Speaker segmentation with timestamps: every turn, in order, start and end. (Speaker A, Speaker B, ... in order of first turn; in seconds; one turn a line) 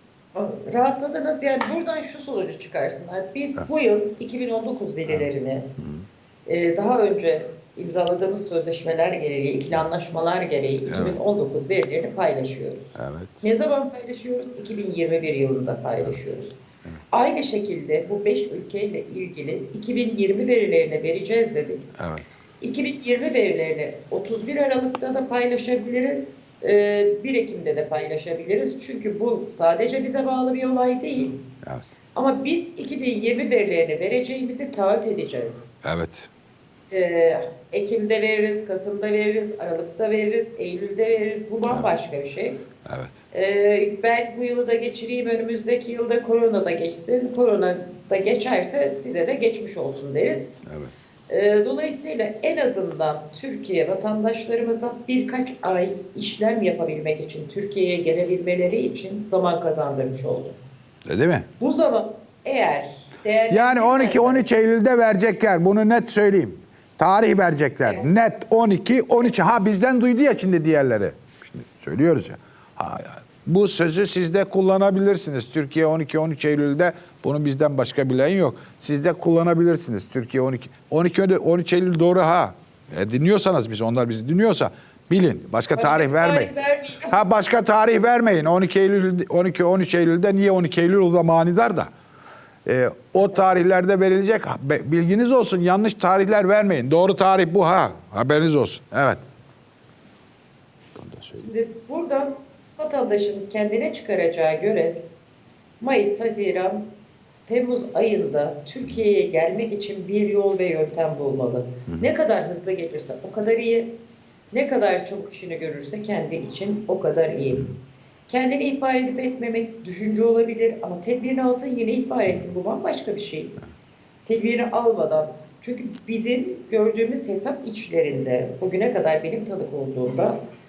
Speaker A: 0.3-5.7
Speaker B: 5.1-6.1
Speaker A: 6.5-16.5
Speaker B: 10.9-11.2
Speaker B: 12.9-13.4
Speaker A: 17.1-21.9
Speaker B: 21.9-22.3
Speaker A: 22.6-31.4
Speaker A: 32.1-35.6
Speaker B: 35.8-36.3
Speaker A: 36.9-42.6
Speaker B: 42.8-43.2
Speaker A: 43.3-50.5
Speaker B: 50.7-50.9
Speaker A: 51.3-60.6
Speaker B: 61.1-61.5
Speaker A: 61.6-64.5
Speaker B: 63.5-86.5
Speaker A: 85.7-87.2
Speaker B: 87.0-91.9
Speaker B: 92.7-99.2
Speaker B: 101.0-101.4
Speaker A: 101.3-105.0
Speaker A: 105.8-106.9
Speaker A: 107.5-113.9
Speaker A: 114.5-117.8
Speaker A: 118.3-123.6
Speaker A: 124.3-130.4